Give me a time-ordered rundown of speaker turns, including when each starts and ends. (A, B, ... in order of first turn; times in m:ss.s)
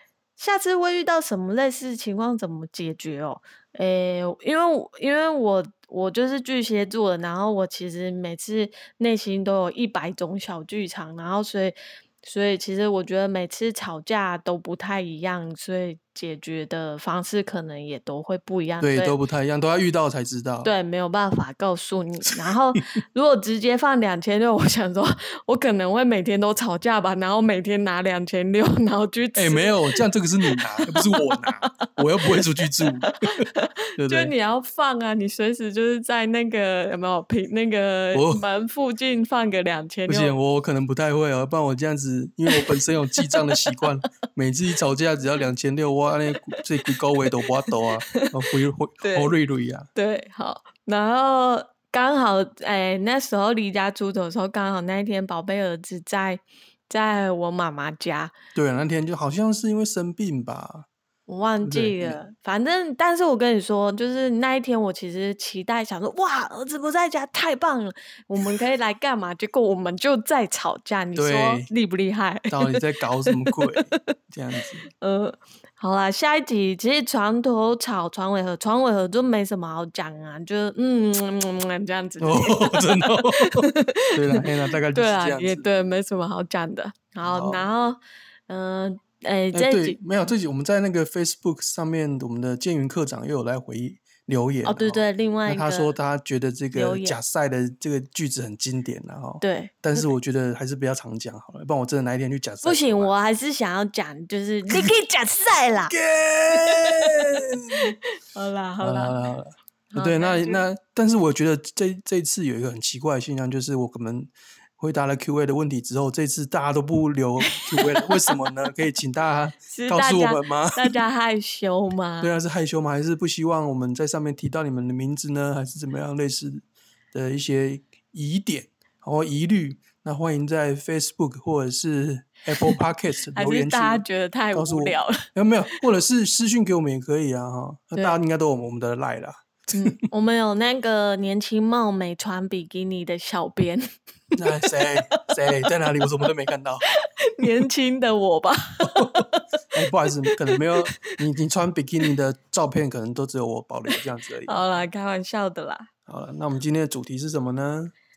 0:00.4-0:19.2 A
0:18.8-0:20.7 B
0:20.6-0:30.0 A
0:29.4-0:33.4 B
0:30.5-0:31.7 A
0:33.0-0:40.4 A
0:34.0-0:34.3 B
0:38.1-0:38.4 B
0:40.1-0:49.9 B
0:42.5-0:43.5 A
0:46.3-0:46.6 A
0:48.1-0:48.3 A
0:49.0-0:49.3 A
0:50.0-0:58.3 A
0:58.6-1:00.9 B
1:01.3-1:14.0 A
1:01.6-1:02.2 B
1:11.2-1:11.7 B
1:12.5-1:14.8 B
1:14.9-1:30.0 A
1:22.2-1:25.7 B
1:27.2-1:27.7 B
1:29.5-1:43.1 B
1:34.6-1:36.0 A
1:36.7-1:37.2 A
1:39.4-1:40.1 A
1:42.6-1:46.0 A
1:45.9-1:47.9 B
1:46.5-1:47.2 A
1:47.8-1:49.2 A
1:48.8-2:01.0 B
1:49.9-1:50.7 A
1:57.5-1:58.3 A
1:59.7-2:02.4 A
2:02.2-2:20.0 B
2:13.3-2:15.3 A
2:19.7-2:23.8 A
2:24.4-2:26.9 B
2:27.4-2:29.4 A
2:28.8-2:29.2 B
2:29.7-2:34.7 B
2:34.5-2:35.9 A
2:36.1-2:37.9 B